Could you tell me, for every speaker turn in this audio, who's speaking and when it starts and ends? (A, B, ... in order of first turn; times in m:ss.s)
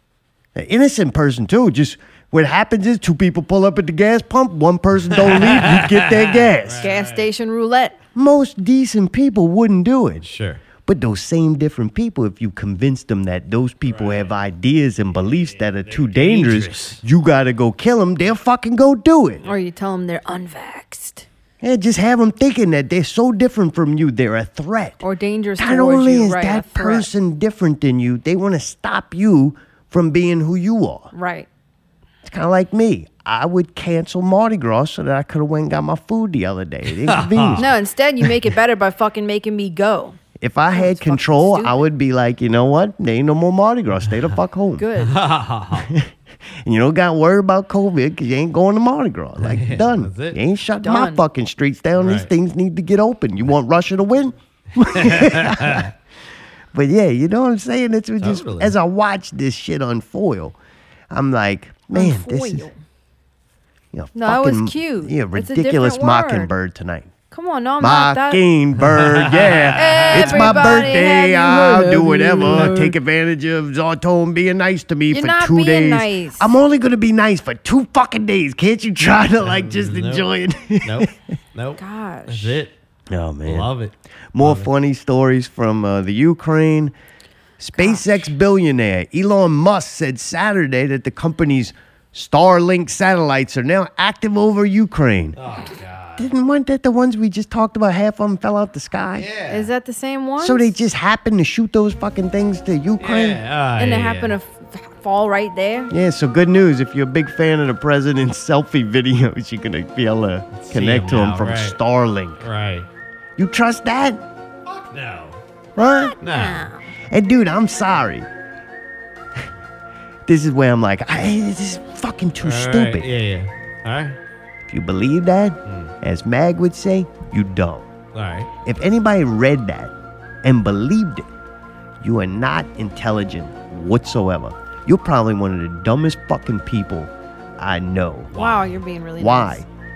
0:00.5-0:06.9 A
0:05.1-0:07.3 B
0:06.8-0:08.0 C
0:08.1-0:10.3 A
0:10.2-0:10.6 B
0:10.8-0:19.5 A
0:13.8-0:14.4 B
0:15.1-0:17.0 B
0:19.4-0:21.2 C
0:21.6-0:25.0 A
0:25.0-0:27.1 C
0:25.6-0:31.1 A
0:31.1-0:31.5 C
0:32.2-0:37.7 A
0:36.9-0:37.7 B
0:37.6-0:40.2 C
0:40.4-0:44.9 A
0:40.7-0:41.8 C
0:44.8-0:45.1 C
0:45.0-0:45.9 B
0:45.8-0:46.1 A
0:46.6-0:55.9 A
0:49.4-0:50.4 B
0:50.8-0:51.2 C
0:51.9-0:52.3 B
0:54.8-0:55.9 B
0:56.7-1:00.6 A
0:58.2-0:58.7 B
1:01.1-1:02.7 A
1:01.9-1:02.8 C
1:03.9-1:07.1 A
1:04.1-1:06.5 C
1:07.3-1:08.4 C
1:07.8-1:21.1 A
1:08.8-1:11.0 B
1:09.8-1:12.9 C
1:12.4-1:12.7 B
1:15.1-1:16.5 C
1:19.4-1:20.3 B
1:20.8-1:22.7 B
1:21.8-1:22.6 C
1:23.1-1:23.7 A
1:23.4-1:24.7 B
1:24.3-1:26.9 A
1:27.6-1:35.4 A
1:27.8-1:28.0 C
1:35.4-1:36.3 B
1:36.2-1:39.3 A
1:39.1-1:39.7 B
1:39.5-1:40.7 C
1:40.4-1:43.4 A
1:43.0-1:44.4 B
1:43.8-1:45.9 C
1:45.9-1:52.4 A
1:50.5-1:51.8 B
1:52.4-1:52.9 B
1:53.4-1:54.2 A
1:54.6-1:55.4 B
1:55.8-1:56.2 A
1:56.2-1:56.6 B
1:56.2-1:56.9 C
1:57.1-1:58.3 A
2:00.2-2:03.1 A
2:02.4-2:04.2 B
2:04.7-2:07.9 A
2:05.6-2:05.9 B
2:08.1-2:08.5 B
2:08.6-2:11.2 A
2:12.0-2:18.3 A
2:18.3-2:19.6 C
2:18.3-2:18.7 B
2:19.2-2:19.7 A